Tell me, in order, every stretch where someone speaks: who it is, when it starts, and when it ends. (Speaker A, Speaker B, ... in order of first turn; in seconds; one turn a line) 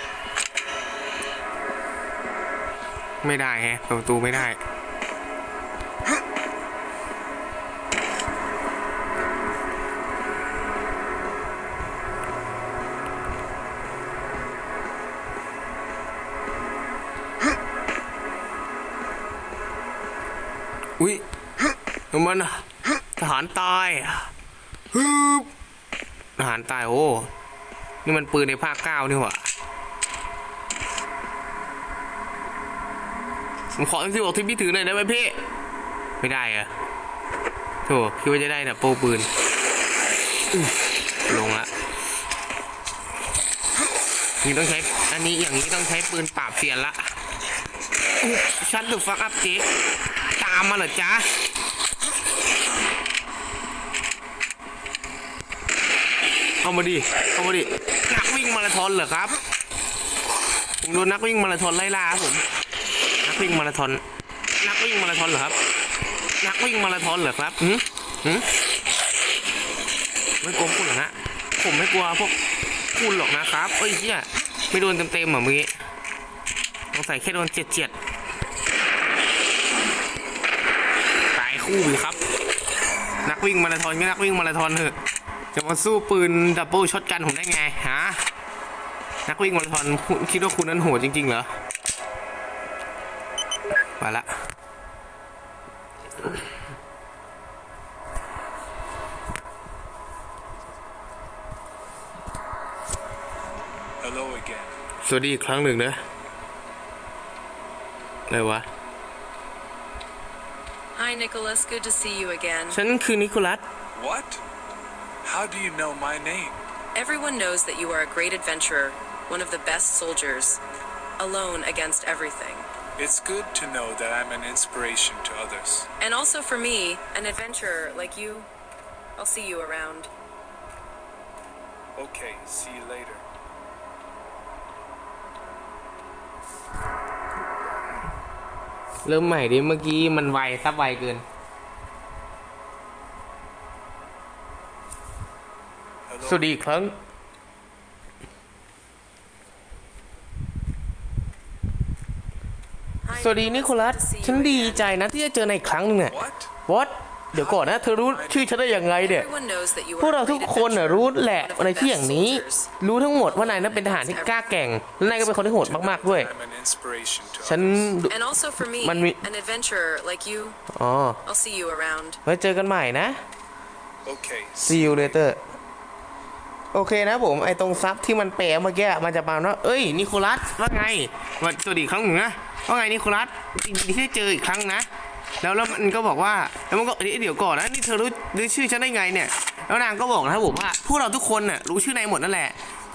Speaker A: 3.2-4.6
Speaker A: 22.1-22.6
Speaker A: 23.2-24.3
Speaker A: 24.9-25.5
Speaker A: 26.4-27.3
Speaker A: 28.0-29.4
Speaker A: 33.7-35.4
Speaker A: 36.2-36.7
Speaker A: 37.9-39.3
Speaker A: 41.3-41.7
Speaker A: 44.4-47.1
Speaker A: 48.2-49.7
Speaker A: 50.4-51.3
Speaker A: 56.6-59.4
Speaker A: 60.8-62.4
Speaker A: 63.2-64.0
Speaker A: 64.6-65.5
Speaker A: 66.4-68.5
Speaker A: 70.4-72.3
Speaker A: 73.0-75.7
Speaker A: 76.9-77.9
Speaker A: 81.3-82.2
Speaker A: 83.2-85.0
Speaker A: 85.5-88.2
Speaker A: 89.3-91.5
Speaker A: 94.0-94.3
Speaker B: 104.0-104.7
Speaker A: 105.0-106.0
Speaker A: 108.3-108.7
Speaker C: 111.0-112.8
Speaker A: 112.7-113.6
Speaker B: 113.9-114.4
Speaker B: 115.2-116.7
Speaker C: 116.9-120.6
Speaker C: 121.2-122.7
Speaker B: 123.0-125.9
Speaker C: 126.0-128.5
Speaker C: 129.2-130.1
Speaker B: 131.9-133.2
Speaker A: 139.0-141.2
Speaker B: 146.1-146.7
Speaker A: 146.2-146.9
Speaker C: 153.0-154.9
Speaker A: 153.2-159.3
Speaker B: 156.1-156.5
Speaker B: 157.3-158.6
Speaker C: 159.0-162.7
Speaker A: 160.0-166.3
Speaker C: 163.3-164.5
Speaker B: 165.2-167.9
Speaker A: 167.4-169.2
Speaker C: 168.1-170.6
Speaker A: 170.7-171.2
Speaker C: 171.2-172.2
Speaker A: 172.2-173.2
Speaker B: 174.0-175.2
Speaker A: 174.6-175.4
Speaker A: 176.7-184.9
Speaker A: 185.4-192.6